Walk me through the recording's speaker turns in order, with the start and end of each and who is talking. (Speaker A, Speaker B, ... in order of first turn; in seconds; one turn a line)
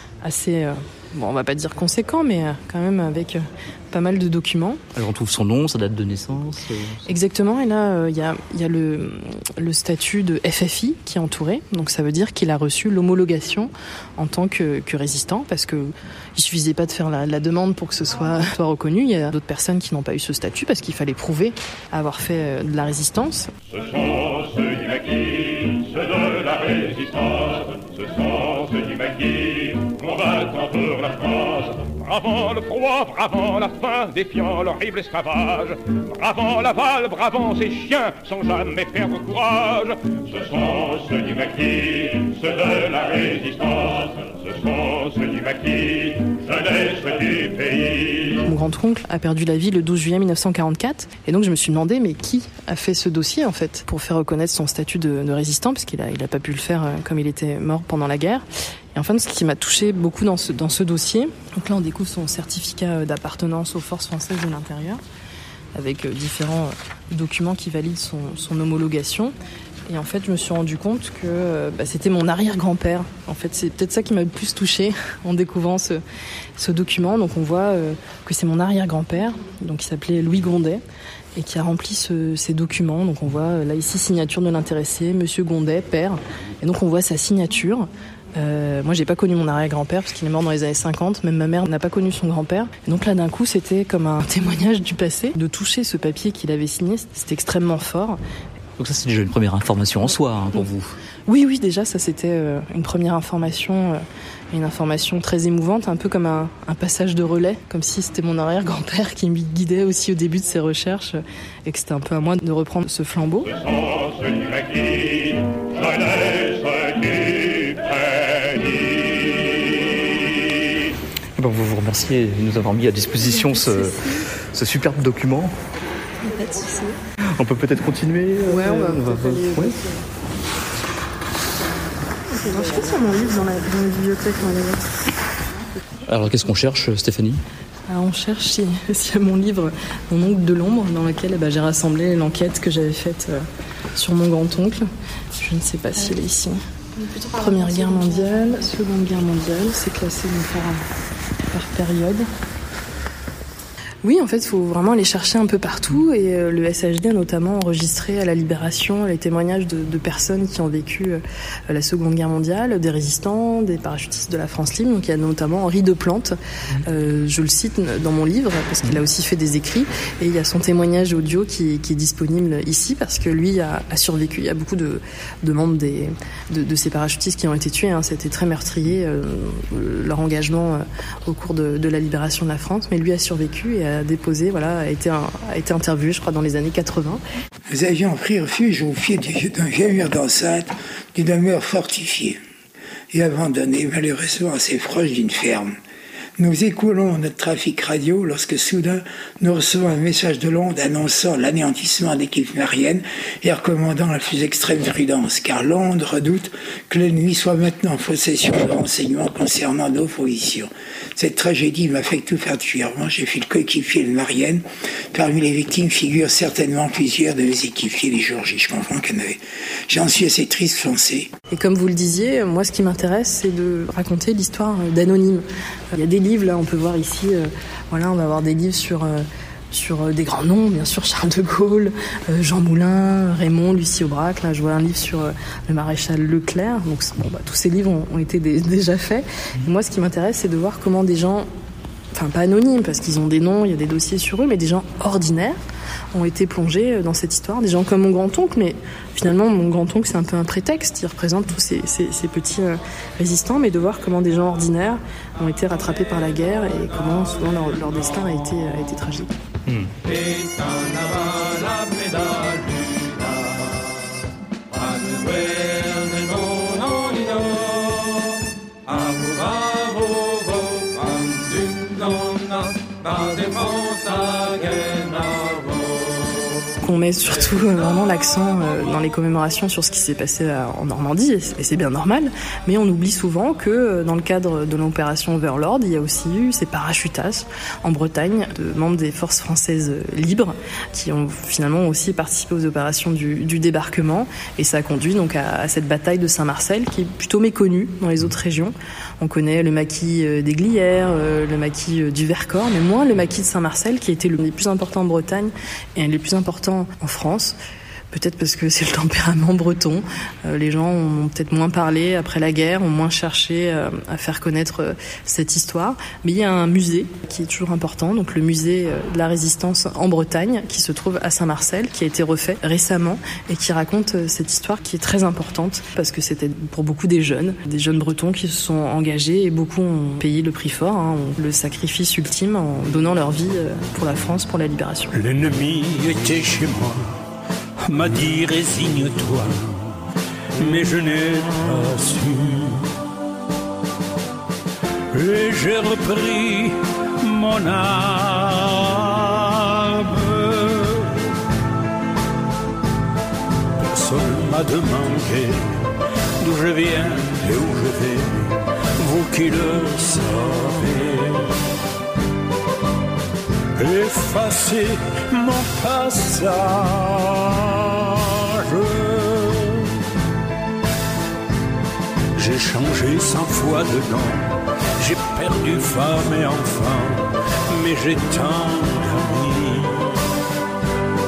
Speaker A: 0.2-4.8
Speaker B: 4.9-7.1
Speaker A: 7.1-23.5
Speaker C: 23.7-48.4
Speaker A: 48.4-65.0
Speaker A: 65.7-69.3
Speaker A: 69.9-76.0
Speaker A: 76.6-80.8
Speaker A: 81.3-98.2
Speaker B: 98.8-100.9
Speaker A: 101.2-113.5
Speaker C: 113.5-120.3
Speaker B: 121.4-125.5
Speaker A: 126.2-126.9
Speaker B: 127.3-129.7
Speaker A: 128.5-129.8
Speaker A: 132.3-135.0
Speaker B: 136.1-137.4
Speaker A: 137.9-143.4
Speaker A: 143.9-150.8
Speaker A: 151.5-152.3
Speaker A: 154.0-187.2
Speaker D: 187.7-192.4
Speaker D: 193.1-195.7
Speaker D: 196.4-221.3
Speaker A: 221.5-241.5
Speaker A: 242.1-245.6
Speaker A: 246.1-259.3
Speaker A: 276.8-307.6
Speaker A: 308.1-335.1
Speaker E: 335.1-337.2
Speaker E: 337.8-339.9
Speaker E: 340.6-342.9
Speaker E: 345.1-351.2
Speaker E: 353.8-361.6
Speaker E: 363.7-369.9
Speaker E: 372.3-380.2